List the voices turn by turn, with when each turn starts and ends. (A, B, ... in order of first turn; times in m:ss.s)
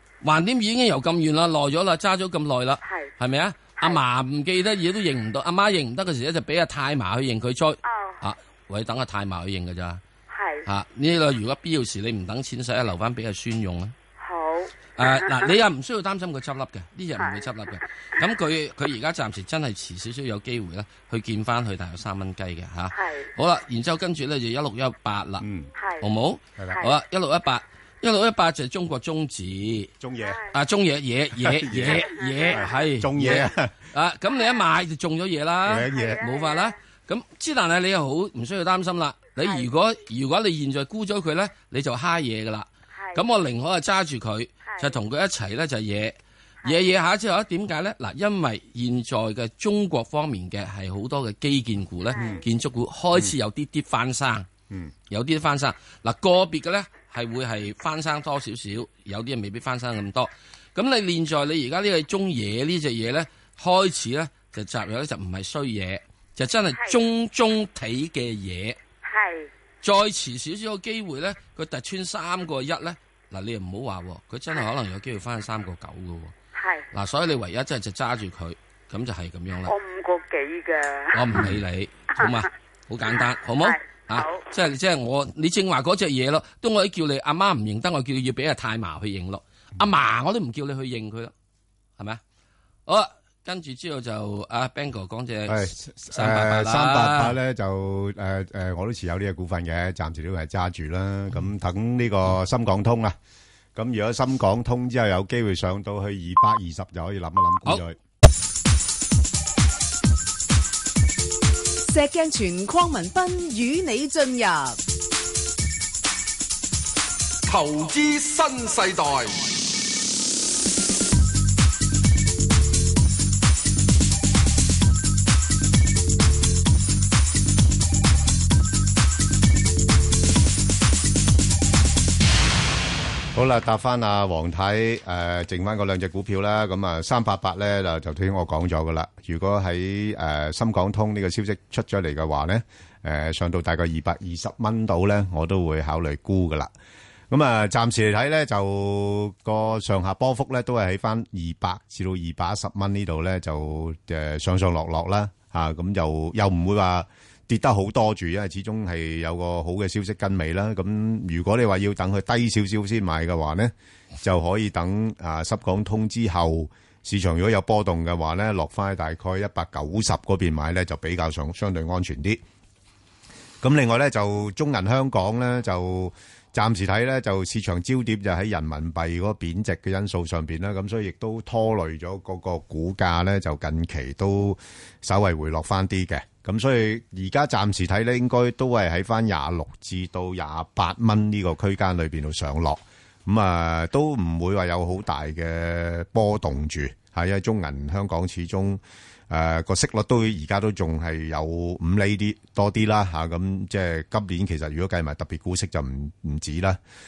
0:00.2-0:10.0 A
0:02.8-0:03.1 B
0:07.8-0:08.2 B
0:10.3-0:10.6 B
0:10.6-0:13.9 A
0:14.2-0:15.5 B
0:15.0-0:25.4 A
0:17.2-0:17.5 B
0:22.9-0:23.3 B
0:25.4-0:25.7 C
0:25.8-0:26.0 B
0:26.0-0:29.9 A
0:26.6-0:26.8 C
0:30.0-0:30.4 C
0:30.2-0:30.5 B
0:30.5-0:54.5 A
0:31.4-0:33.7 C
0:31.8-0:32.9 B
0:34.3-0:34.6 B
0:35.6-0:36.2 C
0:35.8-0:36.7 B
0:39.4-0:39.7 B
0:42.9-0:43.2 B
0:44.6-0:45.0 B
0:46.6-0:46.9 B
0:52.1-0:52.4 B
0:52.2-0:52.4 C
0:55.1-1:08.8 A
1:09.0-1:09.5 B
1:09.8-1:16.3 A
1:16.5-1:16.9 B
1:16.9-1:19.7 A
1:19.7-1:21.4 B
1:21.1-1:31.3 A
1:23.1-1:24.4 B
1:32.9-1:37.4 A
1:35.5-1:43.1 C
1:43.7-1:48.0 C
1:51.9-1:54.8 D
1:57.5-1:59.5 E
2:13.3-2:26.7 C
2:27.3-2:52.4 C
2:53.6-3:26.8 C